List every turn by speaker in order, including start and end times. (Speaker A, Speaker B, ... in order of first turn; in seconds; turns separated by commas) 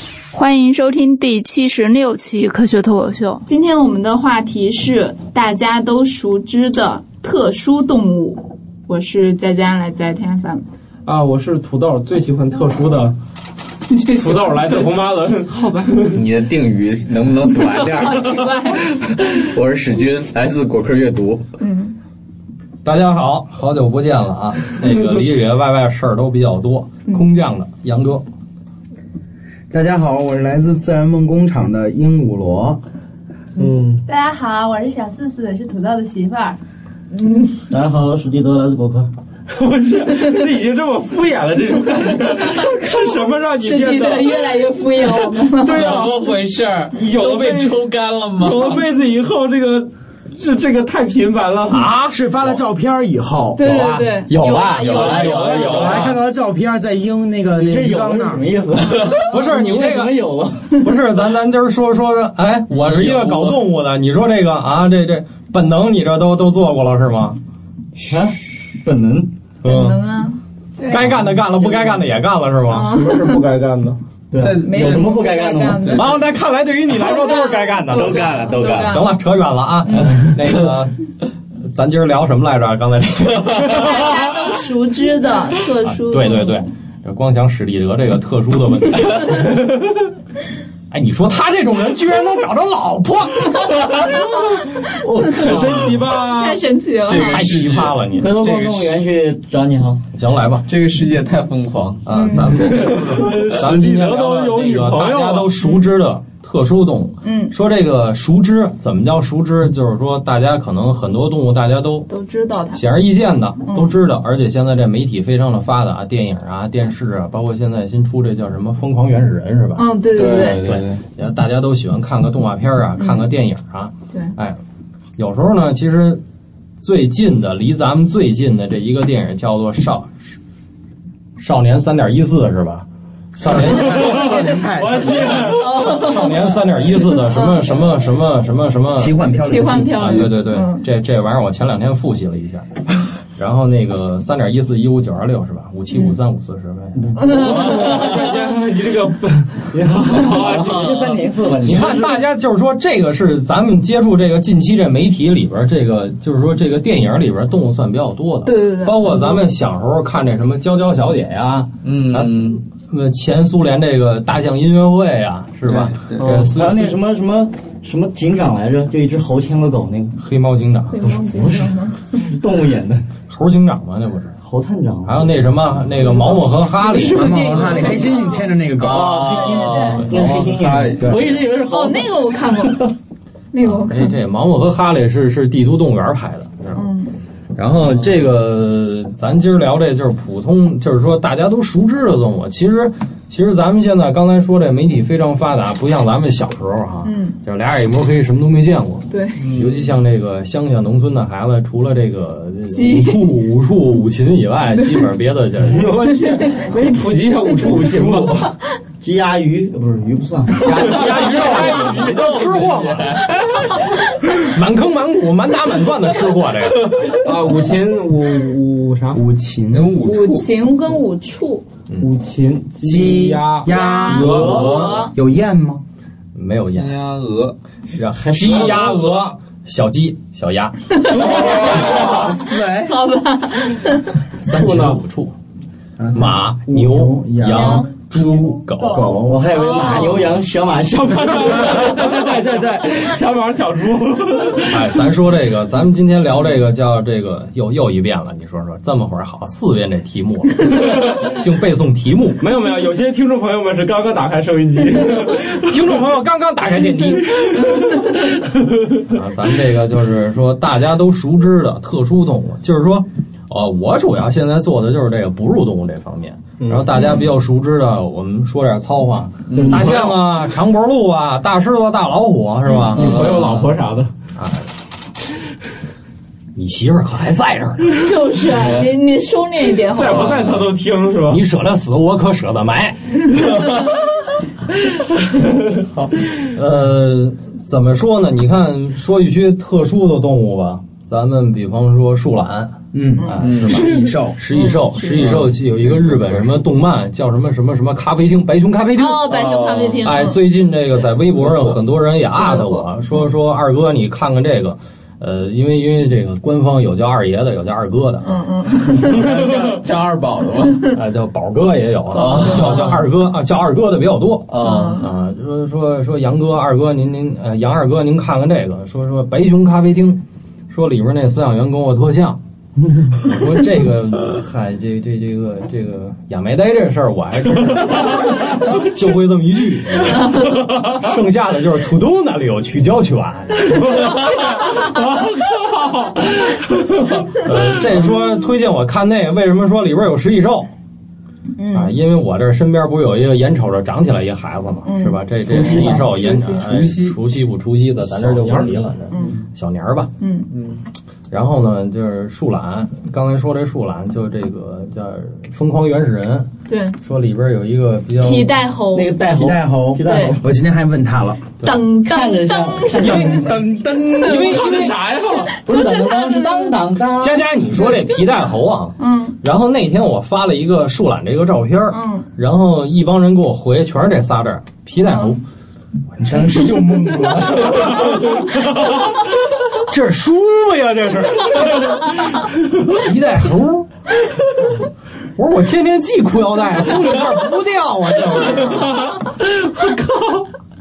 Speaker A: 0.3-3.5, Speaker B: 3.4-10.7, Speaker C: 11.0-13.2, Speaker C: 14.0-16.2, Speaker B: 14.1-14.8, Speaker D: 16.1-21.4, Speaker B: 17.6-18.9, Speaker B: 21.6-22.0, Speaker E: 22.8-28.2, Speaker F: 29.7-32.8, Speaker C: 33.6-34.0, Speaker G: 34.0-36.6, Speaker B: 37.1-37.6, Speaker H: 37.7-39.1, Speaker C: 39.5-46.2, Speaker B: 43.6-45.8, Speaker D: 45.6-48.8, Speaker C: 46.9-47.7, Speaker C: 48.4-51.9, Speaker E: 51.7-52.6, Speaker F: 52.1-53.8, Speaker B: 53.5-55.9, Speaker E: 53.6-55.5, Speaker D: 54.6-56.1, Speaker C: 54.8-56.2, Speaker F: 55.7-58.5, Speaker H: 57.6-60.8, Speaker E: 59.1-60.1, Speaker E: 60.8-67.4, Speaker D: 62.8-63.6, Speaker H: 68.0-69.3, Speaker E: 69.6-70.0, Speaker B: 69.6-71.0, Speaker E: 70.8-73.0, Speaker B: 72.7-73.4, Speaker C: 72.8-74.0, Speaker H: 74.3-76.0, Speaker D: 74.4-76.2, Speaker B: 74.6-76.3, Speaker E: 76.0-81.0, Speaker B: 77.0-79.1, Speaker D: 77.9-79.1, Speaker B: 79.8-80.3, Speaker E: 81.7-84.3, Speaker B: 83.7-86.7, Speaker E: 85.7-89.7, Speaker E: 90.9-93.8, Speaker B: 94.8-95.5, Speaker C: 94.9-96.7, Speaker B: 96.3-97.5, Speaker D: 97.0-98.9, Speaker E: 97.1-98.3, Speaker H: 98.1-100.0, Speaker E: 100.1-100.7, Speaker D: 100.7-102.0, Speaker E: 102.0-112.1, Speaker B: 102.1-102.6, Speaker C: 102.5-105.6, Speaker B: 105.6-105.9, Speaker B: 107.2-107.5, Speaker B: 112.1-112.8, Speaker E: 112.7-124.6, Speaker B: 113.7-114.0, Speaker B: 119.7-120.7, Speaker D: 120.1-121.0, Speaker B: 123.0-123.3, Speaker E: 125.2-126.2, Speaker E: 126.8-130.4, Speaker E: 131.4-134.3, Speaker F: 133.4-135.6, Speaker C: 133.9-135.8, Speaker E: 135.4-139.2, Speaker B: 135.5-137.5, Speaker F: 138.9-140.4, Speaker B: 139.4-140.8, Speaker E: 139.9-142.7, Speaker E: 143.4-147.3, Speaker C: 147.2-150.9, Speaker B: 147.2-148.1, Speaker D: 147.3-148.2, Speaker H: 150.2-152.1, Speaker D: 150.3-151.3, Speaker E: 151.6-167.0, Speaker B: 158.4-159.4, Speaker D: 161.8-162.6, Speaker D: 165.7-166.2, Speaker C: 166.2-166.5, Speaker H: 166.3-170.2, Speaker E: 170.2-171.2, Speaker B: 170.9-172.2, Speaker H: 171.1-173.0, Speaker E: 173.3-174.3, Speaker H: 174.4-177.8, Speaker E: 175.1-177.7, Speaker B: 176.9-178.5, Speaker F: 176.9-180.1, Speaker D: 178.8-181.5, Speaker B: 179.3-180.1, Speaker E: 179.9-180.4, Speaker H: 180.0-182.8, Speaker B: 181.6-182.9, Speaker B: 183.5-184.2, Speaker E: 183.6-186.9, Speaker B: 186.7-187.2, Speaker E: 187.5-205.9, Speaker D: 187.9-188.3, Speaker B: 197.0-197.4, Speaker B: 199.1-199.4, Speaker D: 199.4-199.9, Speaker B: 202.7-203.3, Speaker C: 205.7-208.5, Speaker E: 207.8-208.3, Speaker H: 209.0-211.1, Speaker E: 210.7-213.2, Speaker D: 210.7-213.7, Speaker E: 214.3-217.2, Speaker C: 217.2-219.2, Speaker F: 219.1-220.1, Speaker D: 219.7-220.5, Speaker B: 220.0-221.7, Speaker C: 222.0-224.9, Speaker F: 222.8-225.8, Speaker B: 223.7-225.1, Speaker D: 224.3-225.1, Speaker E: 226.3-227.0, Speaker D: 226.7-227.6, Speaker E: 227.9-231.3, Speaker H: 228.2-229.0, Speaker D: 228.4-228.8, Speaker B: 230.9-231.4, Speaker F: 231.1-233.0, Speaker B: 232.1-234.2, Speaker E: 234.4-235.3, Speaker C: 234.4-235.0, Speaker F: 236.0-239.5, Speaker E: 236.1-239.2, Speaker H: 239.2-241.9, Speaker B: 239.5-240.2, Speaker C: 241.2-244.9, Speaker E: 244.6-252.4, Speaker C: 252.4-255.7, Speaker E: 255.6-257.9, Speaker E: 259.0-273.2, Speaker C: 266.6-267.0, Speaker D: 269.5-270.1, Speaker C: 269.5-270.2, Speaker D: 272.8-273.8, Speaker C: 272.9-274.1, Speaker E: 274.3-274.6, Speaker E: 276.5-278.1, Speaker B: 277.9-280.6, Speaker D: 278.4-278.9, Speaker C: 279.6-281.4, Speaker D: 280.1-280.6, Speaker E: 280.1-280.5, Speaker E: 281.3-283.4, Speaker E: 286.5-299.3, Speaker F: 292.9-294.4, Speaker D: 293.4-294.0, Speaker B: 294.5-295.4, Speaker D: 295.1-296.6, Speaker B: 298.9-300.4, Speaker D: 299.3-300.1, Speaker E: 300.0-308.4, Speaker B: 302.4-302.9, Speaker B: 308.2-309.3, Speaker D: 308.9-310.9, Speaker E: 310.9-322.4, Speaker D: 312.1-313.0, Speaker B: 312.2-313.0, Speaker D: 314.5-315.0, Speaker B: 314.6-315.1, Speaker E: 323.2-333.9, Speaker C: 334.6-336.7, Speaker E: 337.3-340.7, Speaker B: 341.6-342.0, Speaker E: 341.7-350.1, Speaker B: 344.8-346.7, Speaker H: 345.5-346.3, Speaker D: 346.5-347.2, Speaker C: 348.1-348.8, Speaker B: 349.1-349.4, Speaker B: 350.2-350.5, Speaker D: 350.5-350.8, Speaker E: 351.3-358.7, Speaker B: 356.7-357.0, Speaker B: 358.2-359.2, Speaker H: 358.9-360.4, Speaker F: 359.3-361.4, Speaker B: 360.0-360.4, Speaker E: 361.6-361.9, Speaker B: 361.6-363.4, Speaker H: 361.9-363.6, Speaker F: 363.0-364.9, Speaker E: 363.0-363.4, Speaker B: 364.1-366.8, Speaker E: 364.2-365.0, Speaker D: 364.5-365.6, Speaker H: 365.6-367.4, Speaker E: 367.2-375.4, Speaker B: 367.7-368.4, Speaker B: 369.0-369.4, Speaker B: 371.9-372.3, Speaker F: 376.1-378.3, Speaker E: 379.9-382.0, Speaker E: 382.8-383.9, Speaker E: 385.4-389.1, Speaker C: 389.8-390.4